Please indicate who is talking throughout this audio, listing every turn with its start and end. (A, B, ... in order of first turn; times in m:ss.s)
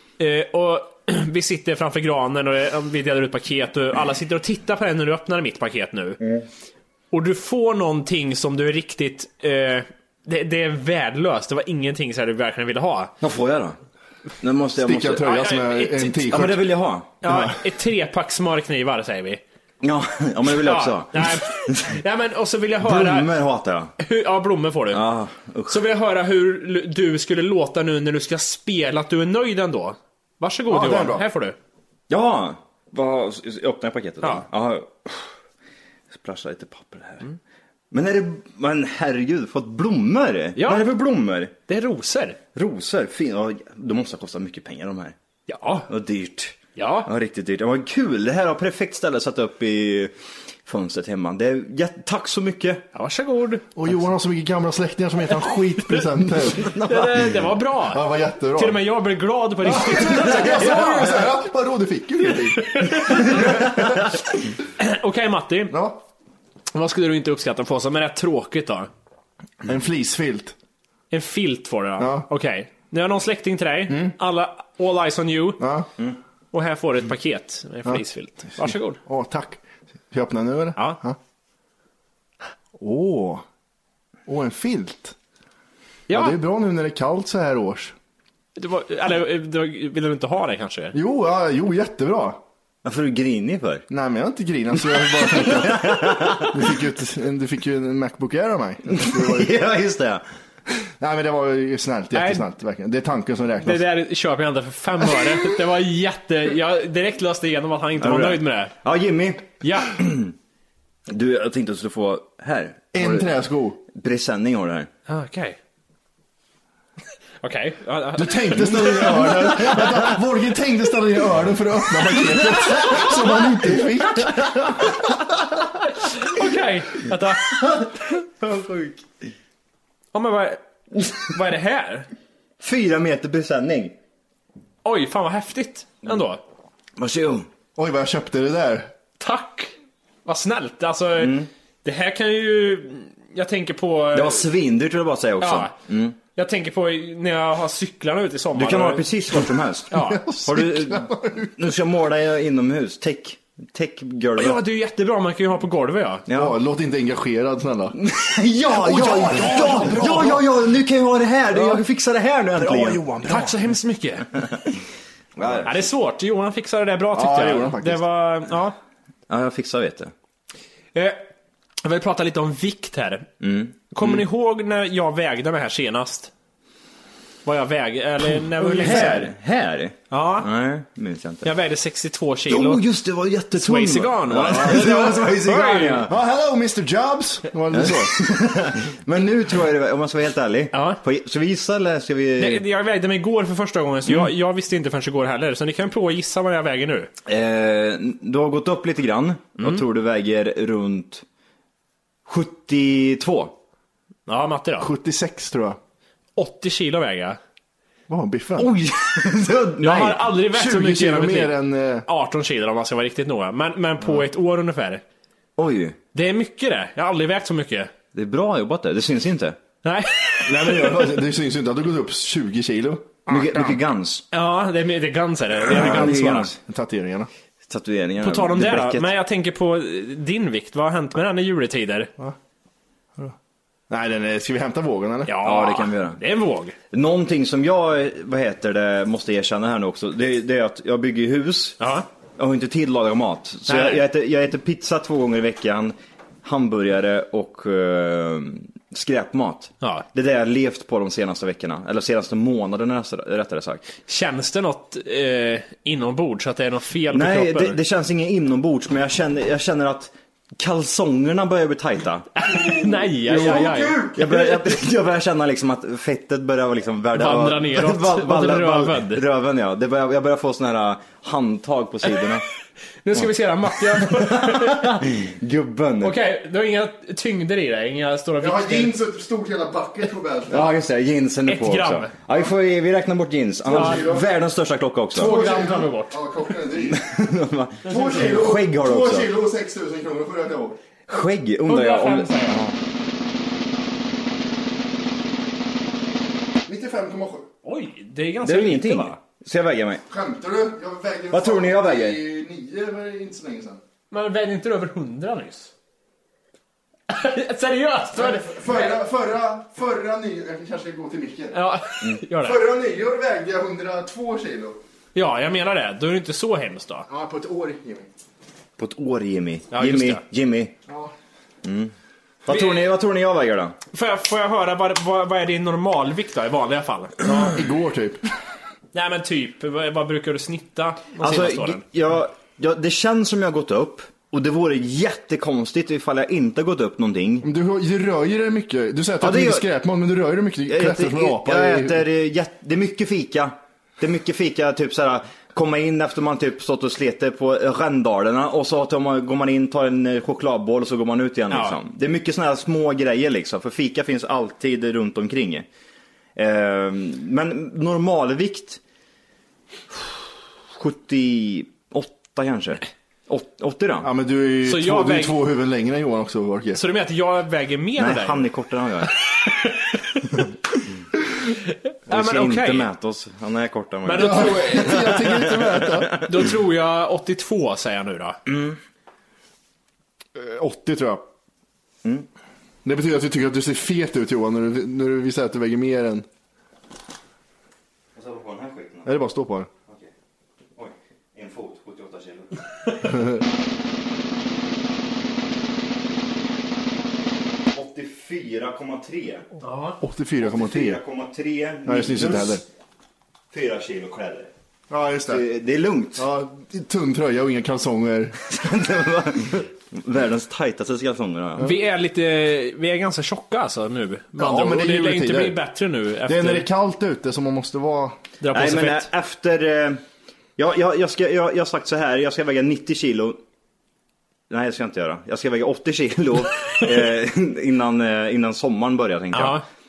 0:00.2-0:06.2 A
0:07.1-0:13.1 A
0:13.2-0:13.8 B
0:14.4-0:15.2 B
0:14.8-0:16.7 C
0:15.2-0:16.4 A
0:16.3-0:17.1 B
0:17.2-0:17.6 C
0:17.2-0:19.4 A
0:19.8-0:22.0 B
0:20.5-0:23.3 A
0:22.8-0:23.9 B
0:24.0-0:25.1 A
0:24.9-0:25.8 B
0:25.7-0:31.6 A
0:30.7-0:31.3 C
0:32.1-0:35.3 B
0:36.1-0:37.3 B
0:37.9-0:41.5 B
0:40.6-0:41.0 A
0:41.7-0:42.4 A
0:42.5-0:45.2 B
0:45.5-0:45.9 A
0:45.9-0:50.1 B
0:46.8-0:47.1 A
0:50.6-0:52.8 B
0:52.9-0:53.7 A
0:53.8-0:56.8 C
0:56.6-0:57.3 B
0:56.7-1:01.1 A
0:57.8-0:58.8 C
0:59.6-1:03.8 C
1:00.2-1:01.0 B
1:02.6-1:03.7 A
1:04.8-1:05.8 A
1:05.7-1:06.0 C
1:06.7-1:08.9 A
1:09.6-1:10.6 C
1:11.1-1:15.6 A
1:12.0-1:12.3 C
1:13.9-1:14.1 C
1:15.6-1:15.9 C
1:16.5-1:19.0 A
1:18.6-1:21.2 C
1:22.8-1:23.4 C
1:24.3-1:25.2 C
1:26.1-1:26.4 A
1:26.1-1:28.0 C
1:28.6-1:31.0 A
1:30.9-1:32.4 C
1:32.8-1:33.8 B
1:33.9-1:39.6 C
1:35.3-1:36.6 B
1:39.0-1:40.2 B
1:41.0-1:43.9 C
1:42.1-1:42.5 A
1:43.6-1:48.8 A
1:48.0-1:50.3 B
1:49.6-1:50.0 A
1:51.1-1:53.3 B
1:52.9-1:53.8 C
1:53.9-1:54.9 B
1:55.1-1:55.6 A
1:57.4-1:59.8 A
1:58.2-2:04.7 C
1:58.8-1:59.6 B
2:04.2-2:05.1 B
2:06.0-2:07.8 A
2:07.5-2:09.3 B
2:10.1-2:12.1 A
2:12.6-2:14.0 B
2:14.8-2:16.4 A
2:17.0-2:17.5 B
2:17.8-2:18.9 C
2:19.2-2:19.7 A
2:20.2-2:24.5 A
2:21.2-2:21.5 B
2:24.1-2:26.2 B
2:25.4-2:25.7 A
2:26.4-2:29.1 A
2:28.6-2:34.6 B
2:29.9-2:30.2 A
2:29.9-2:31.6 C
2:34.4-2:36.3 A
2:36.3-2:36.6 B
2:36.3-2:38.0 C
2:38.0-2:43.0 B
2:38.7-2:40.5 C
2:41.5-2:41.8 C
2:42.5-2:43.6 C
2:43.2-2:44.3 A
2:45.4-2:45.7 C
2:45.6-2:48.8 A
2:47.1-2:48.0 C
2:49.3-2:50.1 B
2:51.0-2:51.3 A
2:51.8-2:53.3 A
2:53.4-2:54.2 B
2:53.9-2:56.3 A
2:57.4-2:59.3 A
2:58.6-2:59.3 C
2:58.8-3:01.5 B
3:00.1-3:00.5 A
3:01.4-3:02.8 A
3:02.5-3:06.1 B
3:03.6-3:06.1 A
3:06.1-3:08.1 C
3:07.7-3:12.6 B
3:10.7-3:11.0 A
3:12.4-3:17.1 A
3:17.3-3:21.2 B
3:22.3-3:23.5 B
3:24.3-3:24.9 A
3:24.8-3:25.8 C
3:26.4-3:27.4 A
3:28.1-3:28.7 C
3:28.6-3:30.3 B
3:29.8-3:35.0 A
3:30.5-3:32.1 C
3:35.6-3:36.0 B
3:36.1-3:37.9 A
3:38.1-3:39.6 B
3:39.8-3:41.1 A
3:40.4-3:43.6 C
3:43.3-3:44.2 B
3:44.3-3:46.5 A
3:45.7-3:46.6 B
3:45.7-3:47.3 C
3:47.7-3:49.1 B
3:48.2-3:52.1 A
3:53.9-3:55.4 C
3:55.3-3:56.8 A
3:55.4-3:56.2 B
3:56.9-4:01.8 B
4:01.8-4:02.1 A
4:02.4-4:13.8 B
4:03.7-4:04.0 A
4:14.1-4:17.8 A
4:17.1-4:22.3 B
4:22.4-4:24.6 A
4:22.4-4:24.1 C
4:23.3-4:32.4 B
4:27.1-4:29.2 A
4:33.0-4:35.0 A
4:33.9-4:36.2 B
4:36.0-4:38.9 A
4:38.4-4:40.7 C
4:40.5-4:45.4 B
4:41.4-4:42.1 A
4:43.6-4:44.3 C
4:43.7-4:44.1 A
4:45.1-4:46.2 A
4:45.2-4:47.0 C
4:46.9-4:49.3 B
4:47.8-4:48.4 A
4:47.8-4:50.8 C
4:51.1-4:52.8 B
4:51.7-4:52.6 A
4:56.7-4:57.5 C
4:57.6-4:59.1 A
4:58.4-5:00.0 B
5:00.1-5:03.8 C
5:01.3-5:02.2 B
5:04.1-5:05.7 A
5:07.1-5:09.0 A
5:08.2-5:11.7 C
5:11.5-5:12.6 A
5:12.4-5:14.8 C
5:15.2-5:17.1 A
5:17.1-5:18.1 C
5:18.8-5:20.7 B
5:19.7-5:20.2 A
5:20.9-5:21.1 C
5:21.6-5:21.9 B
5:22.4-5:23.8 B
5:22.5-5:22.9 A
5:23.9-5:27.6 A
5:27.5-5:28.2 C
5:28.9-5:31.8 A
5:31.2-5:37.5 B
5:37.4-5:42.0 C
5:39.2-5:39.6 B
5:40.7-5:55.7 B
5:51.5-5:51.8 A
5:56.4-5:58.8 B
5:59.9-6:04.1 B
6:04.0-6:06.8 C
6:04.6-6:05.4 A
6:06.7-6:08.5 A
6:08.0-6:09.2 B
6:12.1-6:12.9 A
6:12.1-6:16.4 B
6:14.0-6:15.1 A
6:14.1-6:16.2 C
6:16.2-6:18.4 A
6:18.5-6:18.8 B
6:20.4-6:21.3 C
6:22.8-6:26.3 C
6:28.2-6:29.2 B
6:29.0-6:29.7 C
6:30.8-6:33.1 B
6:37.7-6:39.5 B
6:39.6-6:40.0 A
6:40.0-6:41.0 C
6:40.4-6:42.6 B
6:41.9-6:42.6 C
6:43.5-6:44.5 B
6:44.9-6:45.4 C
6:45.3-6:46.2 B
6:46.2-6:48.4 C
6:48.5-6:51.7 B
6:51.6-6:56.7 A
6:54.4-6:55.6 C
6:56.2-6:58.2 C
6:58.4-6:59.1 A
6:58.5-7:00.0 B
7:00.6-7:03.4 B
7:04.5-7:09.6 B
7:09.3-7:09.6 A